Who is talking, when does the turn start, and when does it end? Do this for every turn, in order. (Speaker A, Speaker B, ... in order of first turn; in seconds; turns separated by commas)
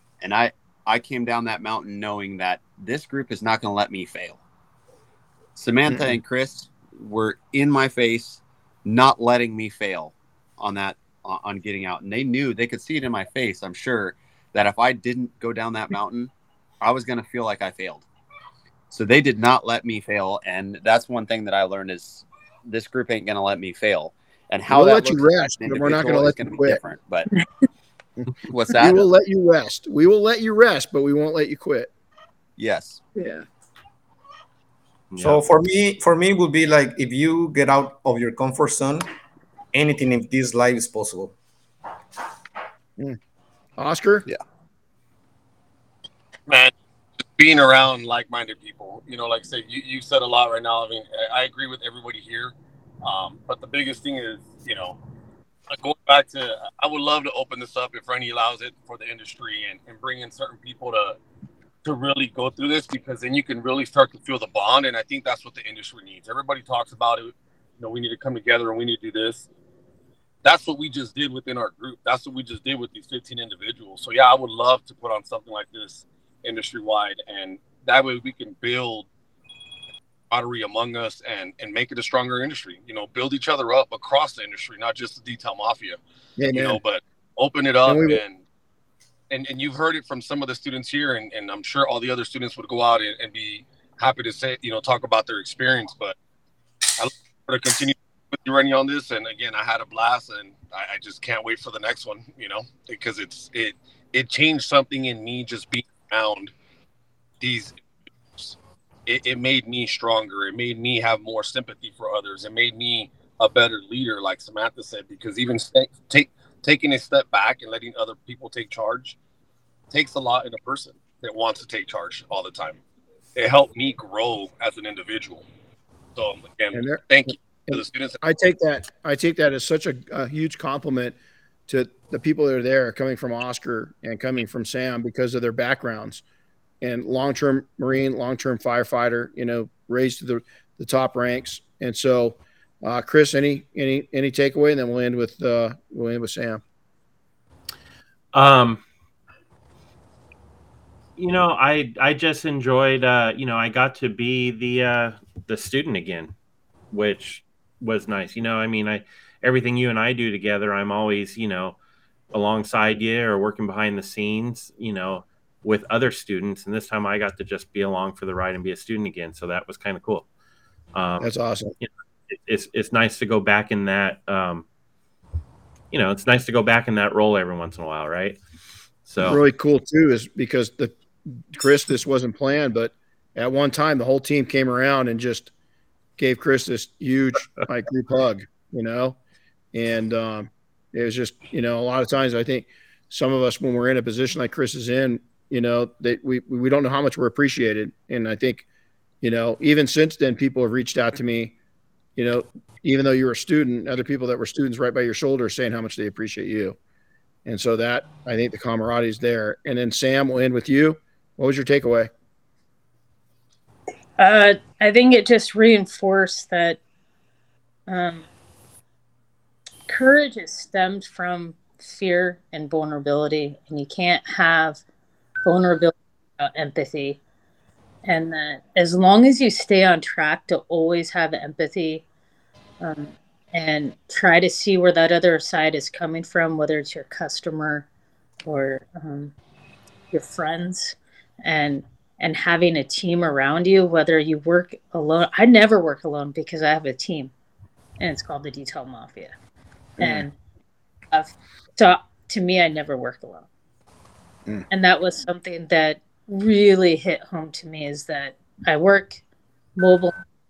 Speaker A: 0.2-4.4, Speaker A: 5.5-18.0, Speaker B: 5.8-6.2, Speaker A: 18.9-27.3, Speaker B: 24.7-26.8, Speaker A: 28.4-29.0, Speaker B: 28.7-31.9, Speaker A: 32.6-33.0, Speaker B: 33.1-33.5, Speaker C: 35.1-35.4, Speaker D: 35.2-39.1, Speaker D: 39.7-41.3, Speaker B: 43.8-44.3, Speaker E: 46.5-46.7, Speaker E: 47.4-55.0, Speaker E: 55.7-61.2, Speaker E: 61.8-69.5, Speaker E: 70.4-79.1, Speaker E: 80.3-86.0, Speaker B: 86.4-86.8, Speaker E: 86.5-88.4, Speaker B: 87.8-88.2, Speaker E: 89.3-96.2, Speaker E: 97.0-106.5, Speaker E: 107.4-119.2, Speaker E: 119.9-122.8, Speaker E: 123.3-125.5, Speaker E: 126.2-128.2, Speaker B: 126.7-127.0, Speaker B: 127.7-131.2, Speaker B: 131.7-136.2, Speaker B: 136.8-146.6, Speaker C: 148.3-148.8, Speaker C: 151.2-156.3, Speaker C: 156.9-161.8, Speaker C: 162.3-170.2, Speaker C: 170.9-171.3, Speaker B: 171.2-171.7, Speaker C: 171.8-174.6, Speaker C: 175.9-178.4, Speaker C: 179.1-179.4, Speaker B: 179.2-185.5, Speaker B: 186.2-189.2, Speaker B: 189.7-198.6, Speaker B: 199.2-201.5, Speaker B: 202.2-206.8, Speaker B: 207.4-212.1, Speaker F: 214.2-216.8, Speaker F: 217.9-218.2, Speaker F: 219.9-224.8, Speaker F: 225.4-227.2, Speaker F: 228.0-232.0, Speaker F: 232.8-237.8, Speaker F: 238.4-239.3, Speaker F: 240.1-247.3, Speaker F: 248.0-249.3, Speaker B: 250.0-250.2, Speaker F: 250.0-250.3, Speaker F: 251.1-253.5, Speaker F: 254.7-259.2, Speaker F: 259.8-260.1